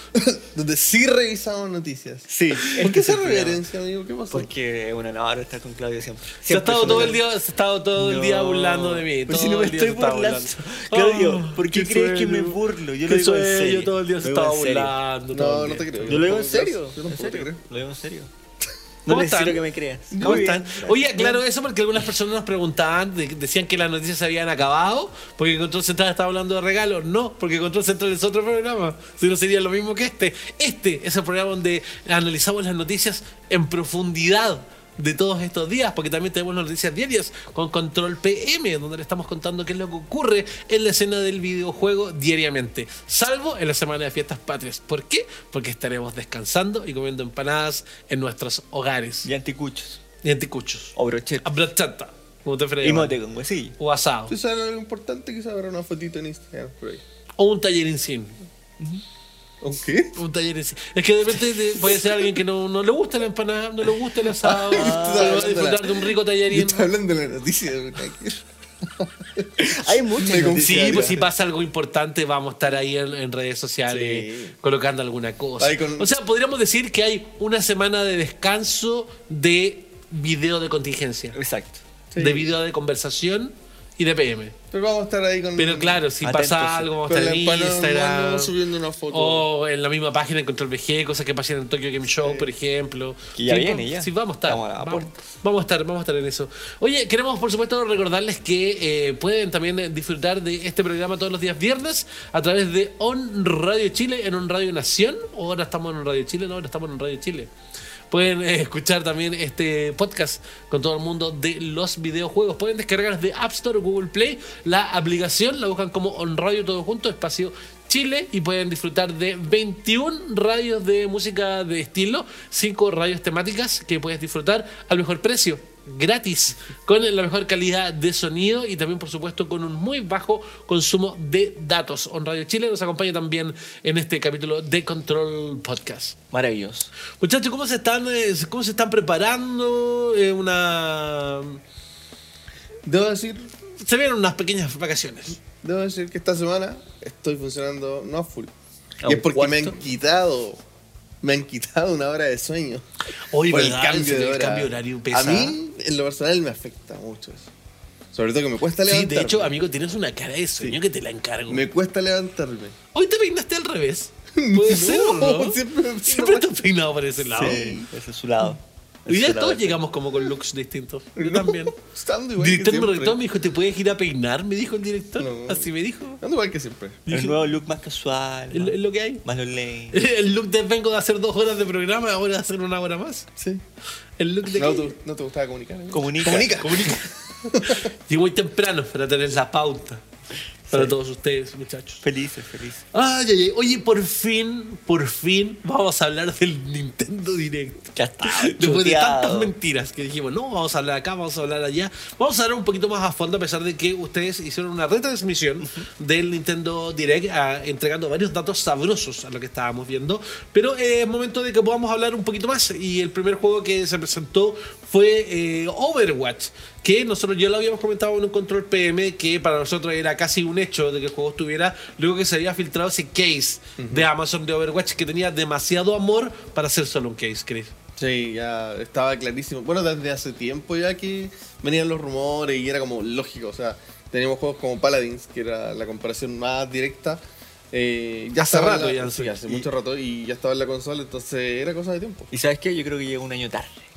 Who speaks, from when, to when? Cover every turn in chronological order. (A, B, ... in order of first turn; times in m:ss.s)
0:00.1-0:04.5 A
0:02.3-0:03.6 B
0:04.3-0:07.2 B
0:06.5-0:16.2 C
0:06.8-0:07.2 A
0:08.0-0:15.0 B
0:15.3-0:17.6 A
0:16.0-0:18.3 B
0:19.1-0:21.3 B
0:19.1-0:19.6 C
0:20.1-0:21.0 A
0:20.2-0:49.3 C
0:49.2-0:50.0 B
0:50.2-0:53.2 C
0:51.0-0:51.6 B
0:52.8-0:53.8 B
0:53.8-0:54.3 C
0:54.3-0:57.0 A
0:57.4-0:58.4 C
0:59.6-1:00.2 A
1:00.2-1:06.9 C
1:04.4-1:11.3 A
1:04.7-1:05.4 B
1:09.6-1:11.2 B
1:10.6-1:21.4 C
1:13.9-1:14.5 A
1:15.6-1:16.1 A
1:21.3-1:21.8 B
1:22.1-1:22.5 A
1:22.2-1:24.6 C
1:24.7-1:26.0 A
1:25.6-1:28.5 C
1:26.2-1:26.9 B
1:27.1-1:29.5 A
1:29.1-1:47.5 C
1:32.1-1:32.5 A
1:33.4-1:35.2 B
1:48.1-2:16.2 C
2:16.3-2:16.9 B
2:17.2-2:21.6 C
2:22.8-2:23.5 A
2:23.8-2:25.4 C
2:25.6-2:28.5 A
2:29.0-2:29.8 B
2:29.0-2:30.6 A
2:31.2-2:32.9 A
2:33.3-2:35.6 C
2:33.5-2:37.5 A
2:38.1-2:39.5 A
2:38.8-2:41.7 C
2:41.5-2:42.8 A
2:42.9-2:47.6 C
2:44.3-2:46.5 A
2:47.3-2:47.9 A
2:47.3-2:49.8 B
2:49.1-2:51.8 C
2:51.2-2:53.2 A
2:52.4-2:56.2 C
2:55.2-2:57.0 A
2:57.1-2:57.4 C
2:57.1-3:00.0 B
2:58.5-2:59.2 C
2:59.9-3:03.3 C
3:03.4-3:03.6 A
3:04.2-3:04.9 C
3:04.5-3:07.9 A
3:05.9-3:06.7 B
3:06.6-3:07.1 C
3:07.6-3:10.0 C
3:10.7-3:12.0 C
3:12.0-3:12.8 B
3:12.9-3:47.7 C
3:18.0-3:19.5 B
3:43.8-3:44.1 A
3:48.0-3:57.2 A
3:57.7-4:02.3 A
3:58.5-3:59.4 C
4:02.3-4:03.8 B